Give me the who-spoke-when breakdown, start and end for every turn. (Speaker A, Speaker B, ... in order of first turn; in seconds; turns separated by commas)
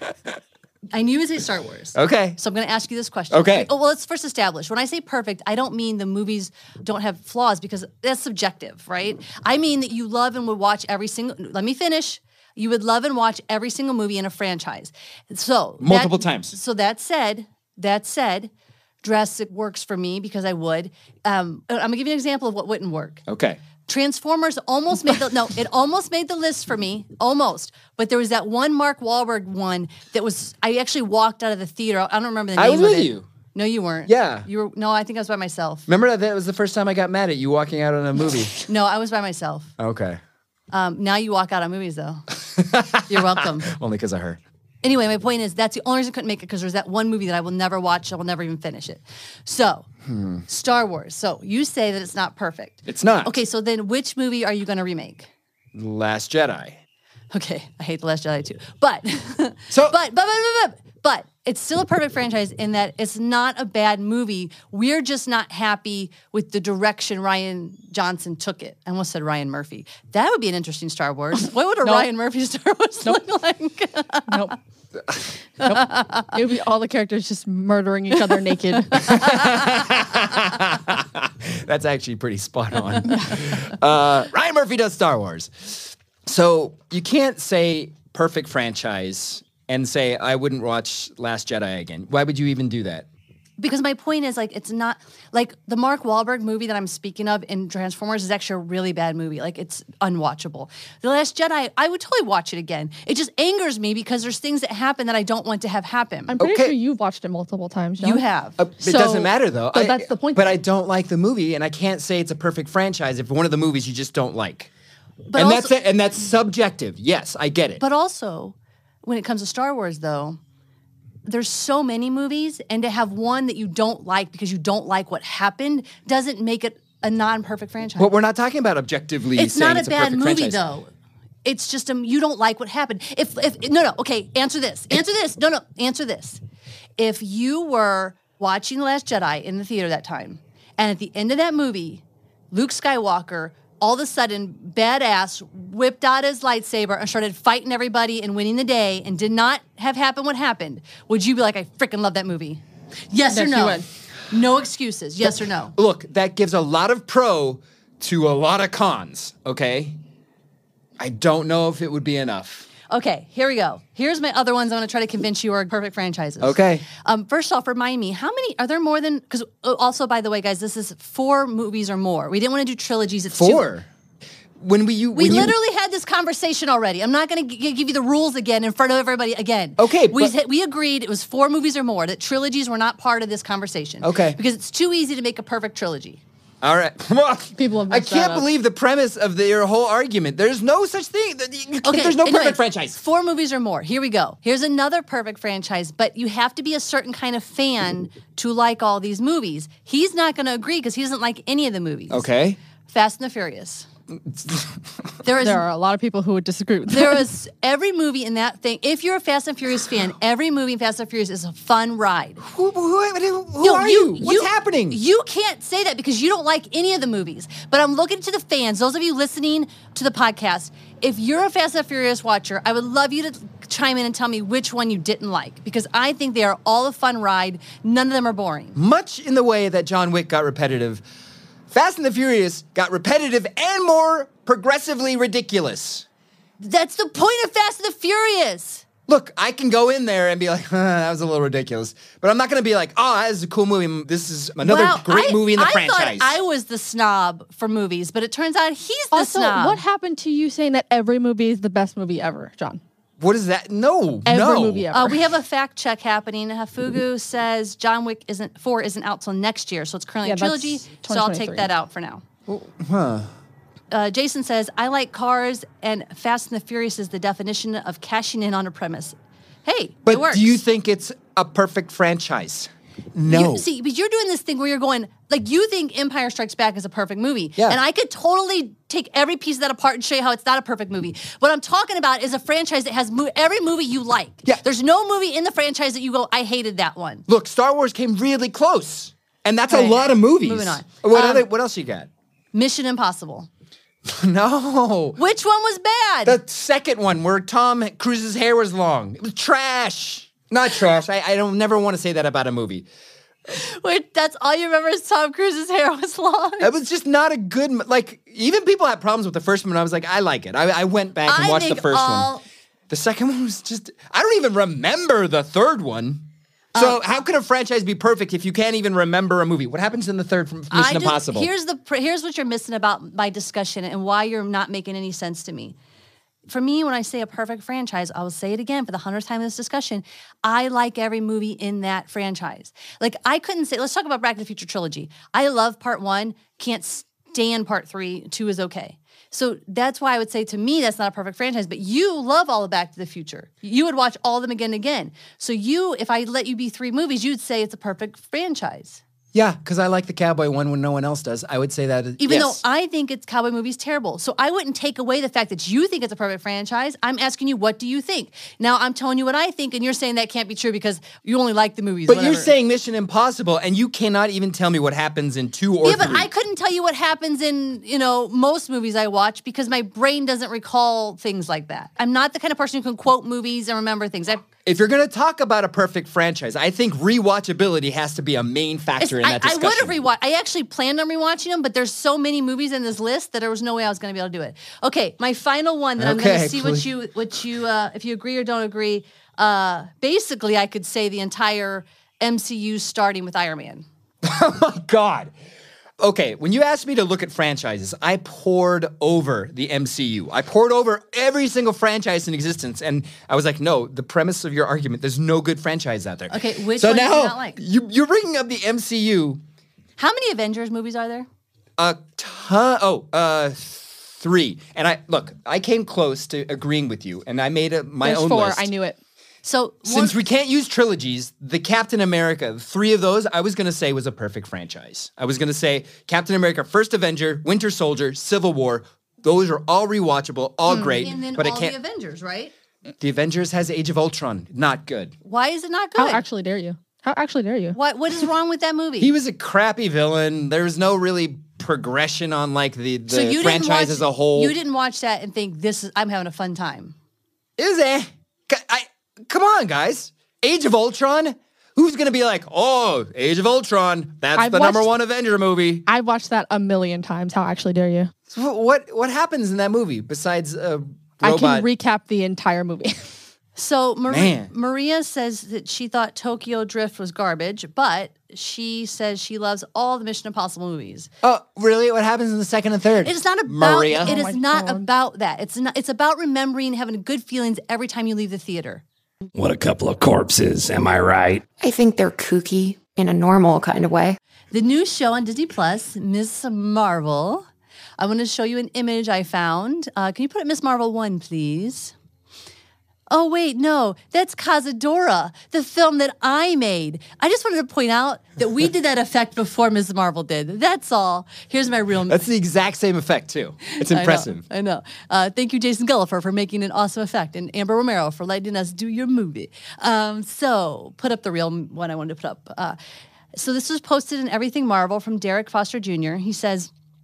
Speaker A: 0.9-18.5, Speaker B: 1.9-2.4, Speaker B: 3.3-3.7, Speaker B: 15.8-16.5, Speaker A: 19.0-23.2, Speaker B: 23.3-23.6, Speaker A: 23.9-35.9, Speaker B: 32.6-33.3, Speaker B: 34.1-34.5, Speaker B: 35.9-38.5, Speaker A: 38.6-39.7, Speaker B: 39.8-40.2, Speaker A: 40.7-42.2, Speaker B: 42.5-44.4, Speaker A: 43.1-43.7, Speaker A: 44.8-49.9, Speaker B: 50.1-50.4, Speaker A: 50.5-55.3, Speaker B: 52.9-53.4, Speaker B: 55.8-56.8, Speaker A: 57.3-74.5, Speaker B: 59.7-60.0, Speaker C: 74.3-74.5, Speaker A: 75.6-76.3, Speaker C: 75.6-79.2, Speaker B: 79.0-93.1, Speaker A: 93.6-106.4, Speaker C: 106.3-108.2, Speaker B: 106.4-106.8, Speaker A: 108.0-108.6, Speaker B: 108.6-114.7, Speaker C: 108.8-110.5, Speaker A: 115.3-115.7, Speaker B: 115.3-117.8, Speaker A: 117.8-120.4, Speaker A: 121.3-128.1, Speaker B: 128.0-130.6, Speaker A: 129.4-130.9, Speaker A: 131.4-136.4, Speaker A: 137.0-155.8, Speaker C: 153.3-153.9, Speaker B: 155.8-160.0, Speaker B: 161.0-162.7, Speaker A: 162.9-173.7, Speaker B: 166.4-166.9, Speaker B: 173.3-173.9, Speaker B: 174.6-175.6, Speaker A: 175.1-186.2, Speaker B: 179.8-180.3, Speaker B: 184.0-184.4, Speaker B: 186.6-193.0, Speaker C: 187.6-188.5, Speaker A: 191.8-202.3, Speaker B: 202.1-202.6, Speaker A: 202.9-203.9, Speaker B: 204.3-204.8, Speaker A: 205.2-205.6, Speaker C: 205.4-207.3, Speaker A: 206.9-212.4, Speaker B: 212.4-215.0, Speaker A: 213.6-228.8, Speaker B: 228.8-231.0, Speaker B: 231.7-236.1, Speaker A: 236.6-238.8, Speaker B: 239.1-246.4, Speaker A: 244.6-249.8, Speaker C: 249.1-252.8, Speaker B: 253.2-254.9, Speaker C: 254.3-255.2, Speaker A: 254.9-262.2, Speaker C: 260.2-261.7, Speaker B: 262.5-263.3, Speaker A: 263.9-270.6, Speaker B: 270.1-273.7, Speaker A: 273.3-287.3, Speaker B: 287.3-292.1, Speaker A: 289.7-291.5, Speaker A: 292.5-293.5, Speaker B: 294.1-295.2, Speaker A: 295.2-296.4, Speaker B: 296.2-302.9, Speaker A: 303.5-306.7, Speaker B: 306.6-312.3, Speaker A: 311.3-312.4, Speaker B: 312.9-321.5, Speaker A: 320.7-325.8, Speaker A: 326.5-349.0, Speaker B: 349.3-352.6, Speaker A: 352.2-362.5, Speaker B: 362.1-366.3, Speaker A: 365.8-374.4, Speaker B: 374.6-380.0, Speaker A: 379.0-393.9, Speaker B: 386.0-386.9, Speaker B: 394.2-395.3, Speaker B: 396.0-409.4, Speaker A: 406.3-407.6, Speaker A: 410.0-411.3, Speaker B: 411.8-418.7, Speaker C: 418.0-419.0, Speaker A: 419.4-420.2, Speaker B: 419.9-431.8, Speaker A: 430.7-432.5, Speaker B: 433.0-435.1, Speaker A: 435.2-436.2, Speaker C: 436.0-437.8, Speaker A: 437.7-439.1, Speaker B: 439.0-444.6, Speaker A: 443.1-446.9, Speaker B: 447.6-455.9, Speaker C: 454.4-454.9, Speaker C: 455.9-458.1, Speaker B: 458.3-461.7, Speaker C: 461.2-463.1, Speaker A: 463.6-471.1, Speaker B: 464.1-464.5, Speaker B: 471.2-474.2, Speaker A: 473.0-478.8, Speaker C: 474.0-474.9, Speaker D: 479.4-481.4, Speaker E: 481.6-484.2, Speaker A: 484.5-487.5, Speaker A: 488.0-491.9, Speaker A: 493.1-502.2, Speaker B: 502.1-504.4, Speaker A: 503.7-512.8, Speaker A: 513.3-516.7